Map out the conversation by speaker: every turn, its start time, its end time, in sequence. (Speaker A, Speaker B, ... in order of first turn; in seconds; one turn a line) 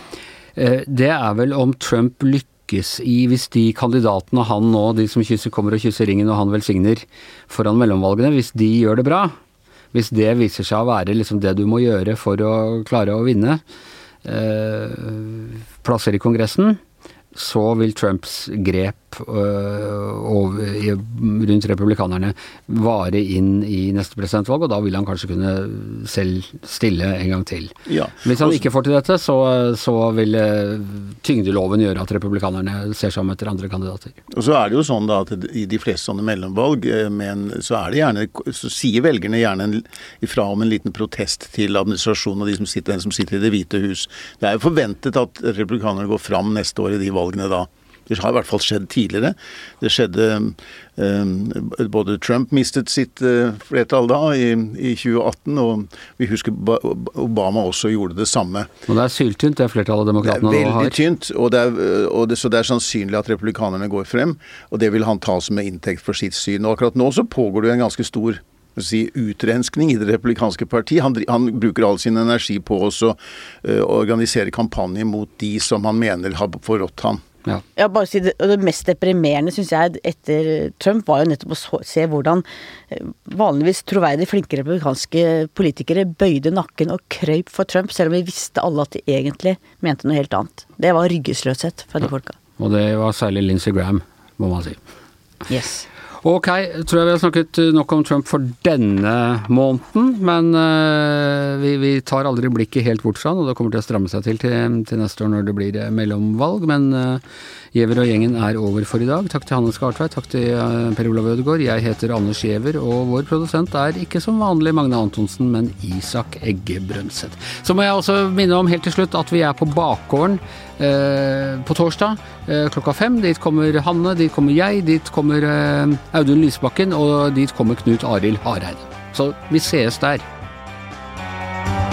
Speaker A: 0.6-9.3
Speaker A: 9.9-13.6
Speaker A: 14.2-16.8
Speaker A: 17.3-34.2
Speaker B: 27.9-28.6
Speaker B: 34.3-58.7
Speaker A: 58.9-61.0
Speaker B: 60.2-77.2
Speaker C: 77.8-92.3
Speaker A: 92.6-94.8
Speaker C: 95.5-95.8
Speaker A: 96.2-107.2
Speaker A: 107.7-130.2